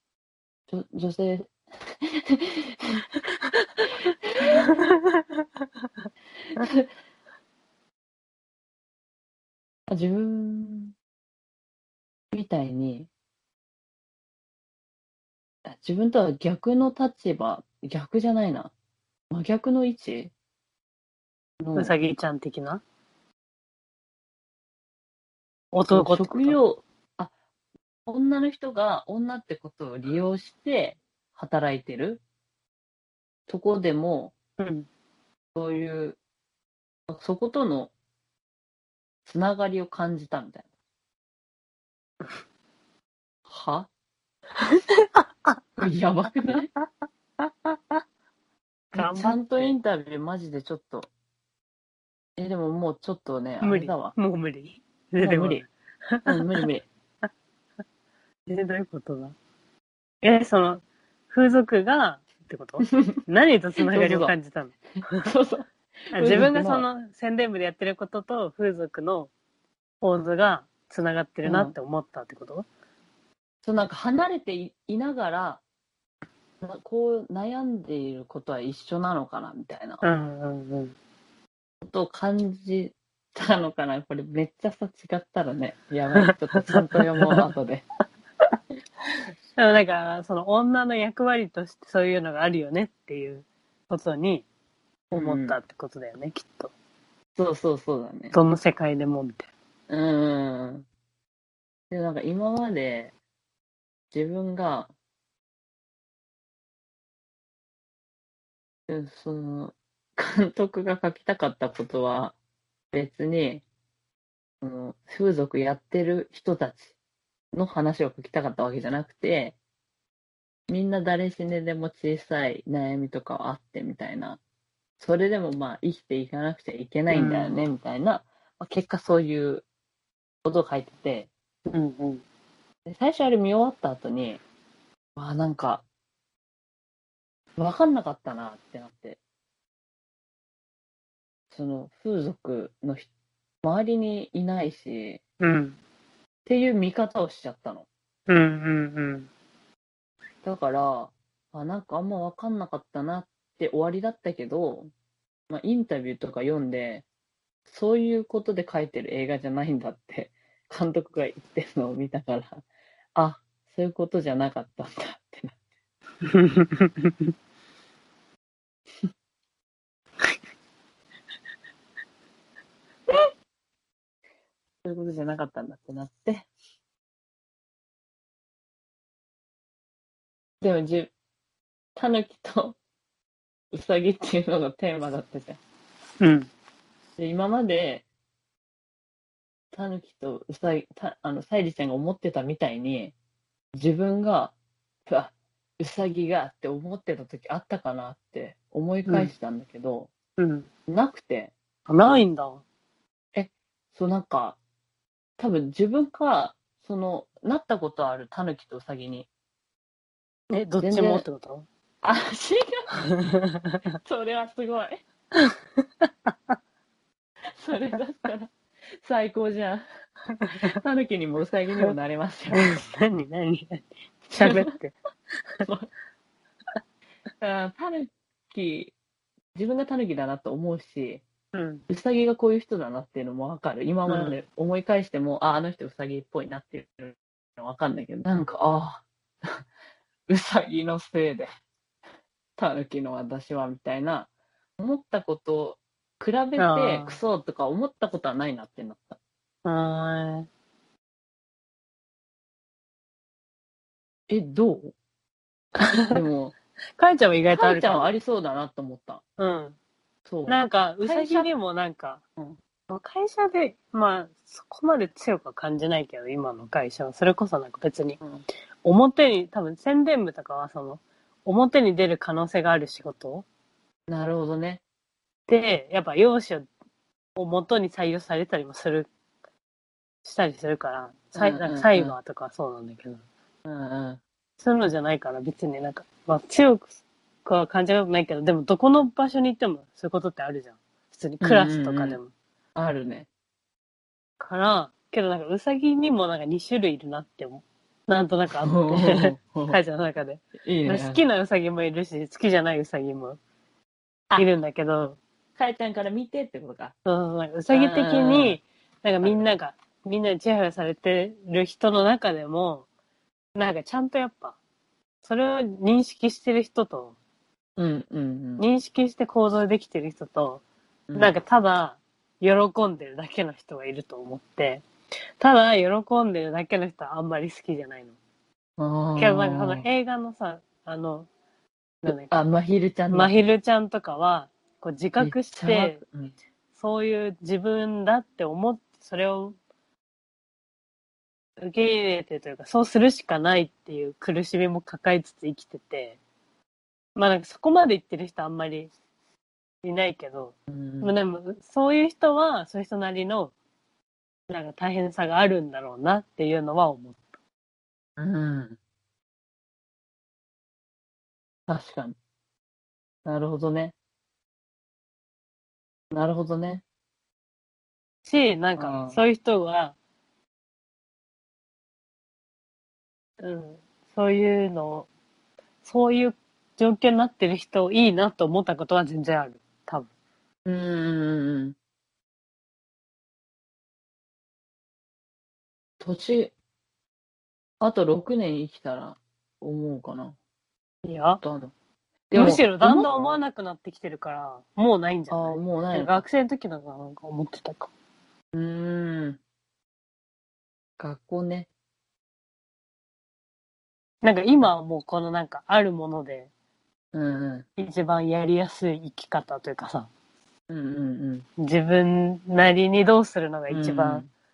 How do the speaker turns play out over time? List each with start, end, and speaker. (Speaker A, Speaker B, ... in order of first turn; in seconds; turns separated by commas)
Speaker A: 0.7-3.0, Speaker A: 3.8-4.8, Speaker B: 4.6-5.2, Speaker A: 6.5-6.9, Speaker A: 9.9-10.9, Speaker A: 12.3-13.1, Speaker A: 15.7-18.7, Speaker A: 19.3-20.3, Speaker A: 21.6-21.9, Speaker B: 21.8-22.8, Speaker B: 25.7-26.6, Speaker A: 25.9-27.3, Speaker A: 28.1-32.2, Speaker A: 33.5-34.3, Speaker B: 34.6-34.9, Speaker A: 35.5-36.2, Speaker A: 37.1-37.9, Speaker A: 39.3-40.6, Speaker A: 43.5-43.9, Speaker B: 44.6-45.6, Speaker A: 45.8-46.7, Speaker B: 47.4-48.0, Speaker B: 48.9-49.7, Speaker A: 49.0-51.1, Speaker A: 52.4-54.2, Speaker B: 53.6-56.6, Speaker A: 55.2-55.6, Speaker A: 56.3-56.9, Speaker B: 58.5-59.4, Speaker B: 60.2-65.3, Speaker A: 63.8-64.3, Speaker A: 65.1-66.9, Speaker B: 66.1-69.3, Speaker B: 70.0-72.7, Speaker A: 71.4-71.7, Speaker A: 73.6-75.6, Speaker A: 76.6-80.0, Speaker B: 80.0-81.0, Speaker A: 81.8-87.8, Speaker B: 86.2-87.5, Speaker B: 89.6-94.5, Speaker B: 95.1-96.7, Speaker A: 95.1-95.6, Speaker A: 97.4-98.4, Speaker B: 98.3-99.5, Speaker A: 99.9-100.9, Speaker A: 101.9-103.1, Speaker A: 104.1-104.9, Speaker A: 108.9-112.3, Speaker A: 112.9-113.6, Speaker A: 114.6-117.0, Speaker A: 117.5-119.6, Speaker A: 120.7-124.4, Speaker A: 125.0-129.7, Speaker B: 127.1-127.6, Speaker A: 130.4-131.3, Speaker B: 131.7-132.2, Speaker A: 132.9-134.4, Speaker A: 135.2-135.8, Speaker A: 137.6-139.2, Speaker A: 141.5-143.1, Speaker A: 143.6-145.2, Speaker B: 145.4-145.8, Speaker A: 146.5-147.9, Speaker B: 148.3-149.3, Speaker A: 150.4-154.9, Speaker A: 155.5-157.1, Speaker A: 157.7-162.6, Speaker A: 163.2-165.6, Speaker B: 166.2-167.3, Speaker A: 174.8-176.5, Speaker A: 180.6-181.1, Speaker A: 182.0-182.8, Speaker A: 183.7-185.6, Speaker B: 186.2-186.5, Speaker A: 187.2-188.1, Speaker A: 189.7-193.1, Speaker A: 193.8-194.5, Speaker A: 195.1-200.1, Speaker B: 199.1-199.3, Speaker B: 200.4-200.7, Speaker A: 200.9-201.5, Speaker B: 201.9-202.6, Speaker A: 203.3-204.6, Speaker A: 205.4-209.3, Speaker B: 210.5-211.7, Speaker A: 210.8-211.2, Speaker A: 212.0-213.0, Speaker B: 213.1-213.8, Speaker A: 214.0-215.0, Speaker B: 216.0-216.5, Speaker A: 217.5-219.8, Speaker B: 220.3-220.8, Speaker A: 220.8-222.8, Speaker B: 222.5-224.9, Speaker A: 224.4-224.7, Speaker A: 227.4-228.9, Speaker A: 229.6-231.2, Speaker B: 231.5-231.8, Speaker A: 231.9-239.6, Speaker B: 234.1-234.4, Speaker A: 240.3-241.5, Speaker A: 242.6-249.2, Speaker B: 246.6-247.2, Speaker B: 249.7-250.5, Speaker A: 254.3-254.9, Speaker A: 256.1-256.6, Speaker B: 257.0-258.1, Speaker A: 257.5-259.2, Speaker B: 259.4-259.8, Speaker A: 260.3-261.5, Speaker B: 260.5-262.2, Speaker B: 262.9-268.2, Speaker A: 268.2-268.5, Speaker B: 268.8-273.5, Speaker A: 274.1-274.8, Speaker B: 275.5-276.7, Speaker B: 277.4-279.1, Speaker B: 280.2-283.2, Speaker A: 281.4-282.2, Speaker A: 283.6-284.2, Speaker B: 284.6-292.3, Speaker A: 291.4-292.2, Speaker A: 292.8-293.3, Speaker B: 294.4-303.4, Speaker A: 298.6-299.8, Speaker A: 300.6-301.2, Speaker B: 304.4-305.2, Speaker A: 305.6-306.9, Speaker B: 307.1-312.9, Speaker A: 307.7-308.6, Speaker B: 313.6-314.6, Speaker B: 315.2-317.2, Speaker A: 317.8-318.7, Speaker B: 318.6-320.6, Speaker B: 321.1-324.9, Speaker B: 325.4-328.2, Speaker A: 328.8-329.9, Speaker B: 329.2-331.3, Speaker B: 332.0-332.3, Speaker A: 332.1-333.3, Speaker B: 333.1-336.0, Speaker A: 335.2-336.3, Speaker B: 336.8-339.6, Speaker B: 341.6-346.2, Speaker B: 347.2-348.9, Speaker B: 349.8-353.5, Speaker A: 350.7-351.1, Speaker B: 354.5-357.2, Speaker A: 358.2-358.8, Speaker A: 361.7-362.2, Speaker A: 363.2-363.9, Speaker A: 366.1-366.8, Speaker B: 368.2-369.9, Speaker A: 368.8-369.2, Speaker B: 373.4-375.1, Speaker B: 375.8-380.1, Speaker A: 380.7-381.8, Speaker A: 386.0-386.5, Speaker A: 387.8-390.4, Speaker B: 391.0-391.4, Speaker A: 391.4-391.7, Speaker A: 392.3-393.4, Speaker B: 392.3-397.9, Speaker A: 395.3-396.2, Speaker A: 398.5-399.4, Speaker A: 401.0-401.7, Speaker B: 404.2-406.5, Speaker A: 407.1-407.7, Speaker B: 407.8-410.1, Speaker A: 410.7-411.5, Speaker B: 411.6-414.3, Speaker A: 413.7-414.3